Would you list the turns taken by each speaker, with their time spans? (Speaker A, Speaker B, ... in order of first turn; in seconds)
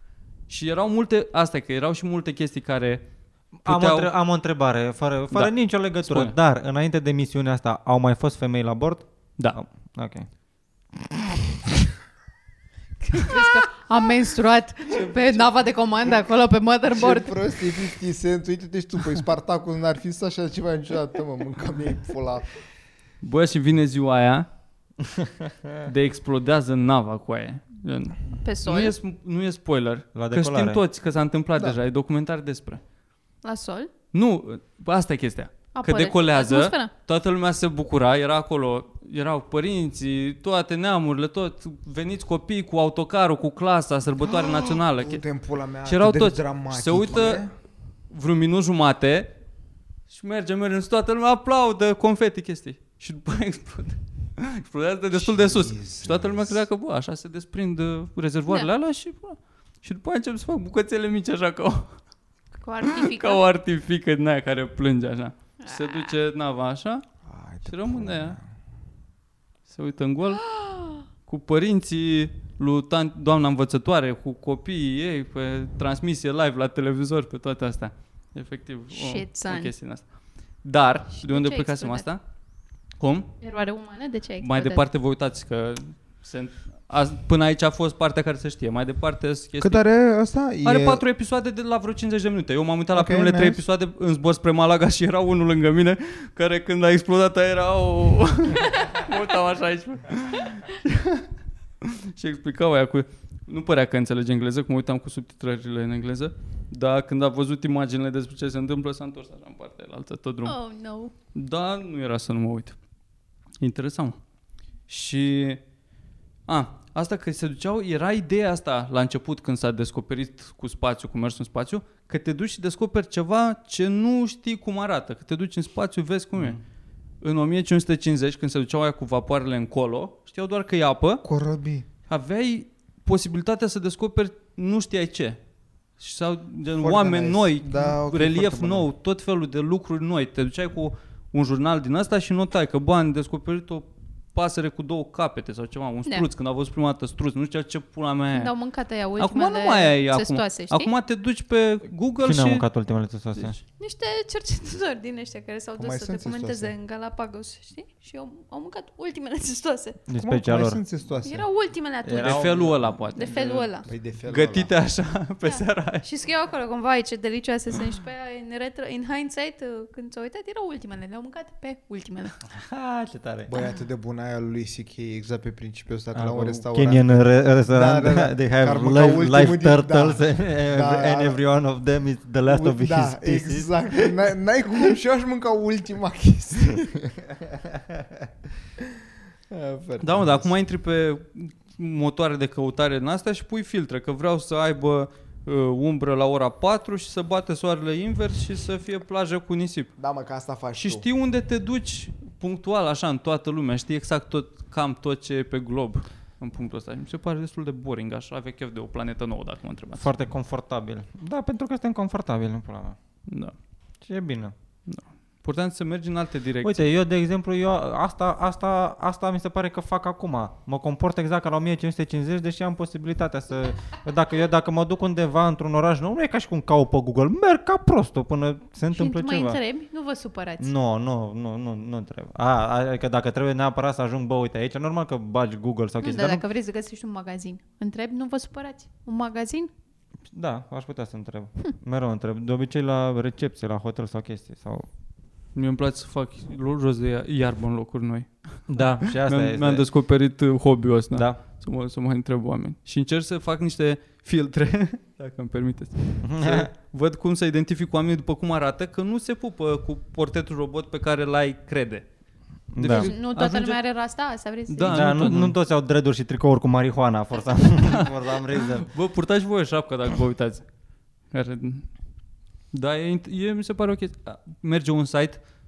Speaker A: 0.5-3.0, 3.6-4.1, 5.3-6.3, 23.2-24.5, 25.8-32.8, 34.1-45.2, 45.8-47.5, 48.1-49.3, 50.1-61.9, 62.8-67.0, 67.6-68.4, 69.7-70.5, 71.2-80.0, 80.6-82.2, 83.0-83.3, 84.4-89.8, 90.6-101.2, 101.8-110.5, 111.3-112.8, 113.6-114.2, 114.9-115.6, 116.5-126.6, 127.2-131.2, 132.1-135.4, 136.0-148.5, 149.2-152.7, 162.2-163.7, 164.3-166.1, 190.0-199.9, 200.8-210.1, 213.3-213.5, 214.9-216.8, 245.5-262.0, 262.7-263.8, 264.7-265.6, 267.8-270.6, 271.3-271.9, 272.7-275.4
Speaker B: 3.6-10.3, 30.1-30.8, 152.2-153.6, 160.1-160.8, 162.0-162.9, 172.6-173.5, 176.1-184.1, 210.0-213.0, 214.0-214.5, 216.6-229.6, 230.6-236.4, 240.3-244.9, 248.7-249.8, 256.2-256.7, 262.7-263.1, 264.9-268.9
Speaker C: 13.1-17.4, 28.4-28.9, 33.4-33.9, 35.7-36.9, 62.6-63.4, 65.6-66.1, 70.3-71.0, 78.9-79.7, 81.1-82.1, 83.4-84.8, 110.4-111.1, 148.3-150.9, 153.8-160.0, 161.2-162.5, 163.1-163.9, 165.4-172.4, 228.9-230.7, 236.0-239.7, 262.8-265.3
Speaker D: 16.9-22.5, 44.2-47.5, 55.1-56.6, 67.3-68.4, 89.6-91.0, 92.9-93.6, 131.2-131.9, 136.8-138.9, 155.8-156.7, 160.2-161.4, 163.8-164.7, 173.5-181.4, 182.4-187.3, 189.5-190.5, 200.0-201.0